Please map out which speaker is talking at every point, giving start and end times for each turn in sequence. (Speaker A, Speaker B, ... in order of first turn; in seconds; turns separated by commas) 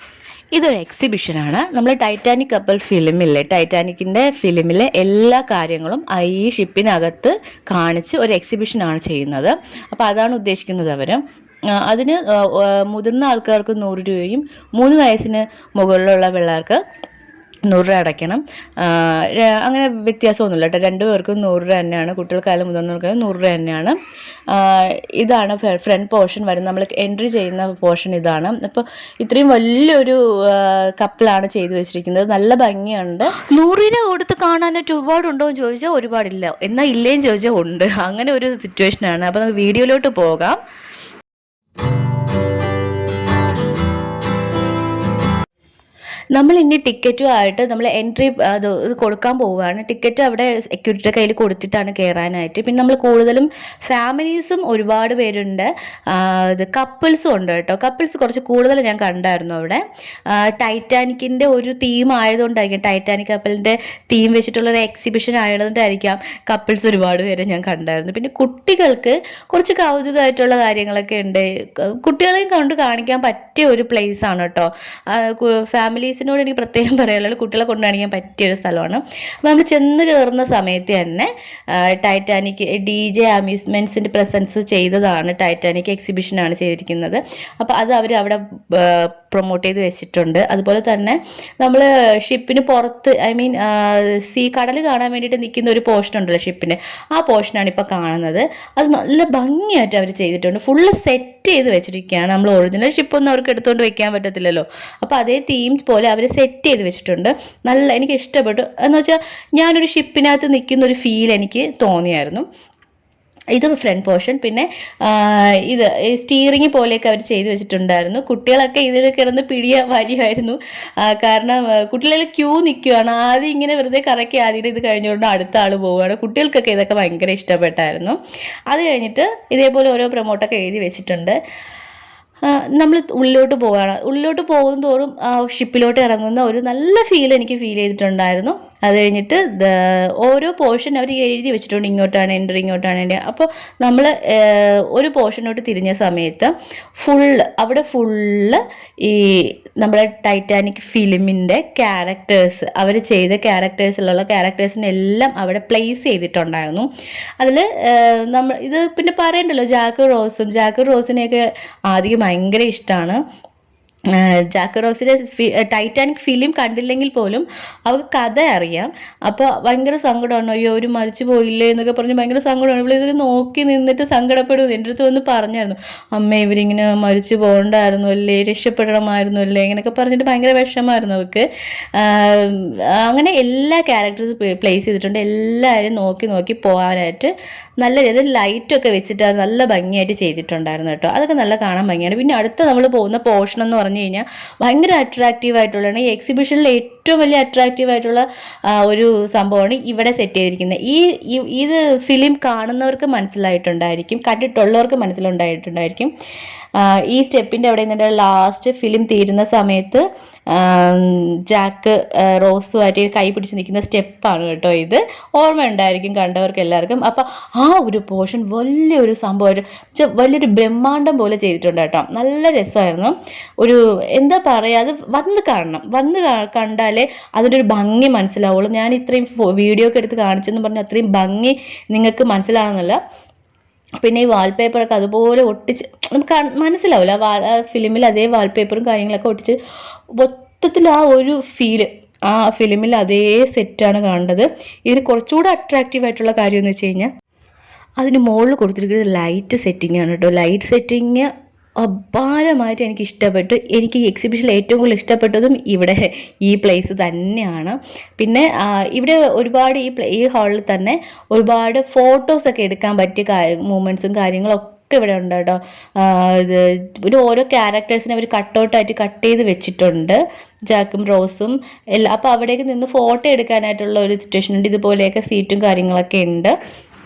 Speaker A: 0.5-16.8, Speaker A: 17.7-40.6, Speaker A: 46.3-112.5, Speaker A: 113.5-131.4, Speaker A: 132.4-163.2, Speaker A: 164.1-206.1, Speaker A: 206.7-233.0, Speaker A: 234.0-239.6, Speaker A: 240.1-247.1, Speaker A: 248.0-276.5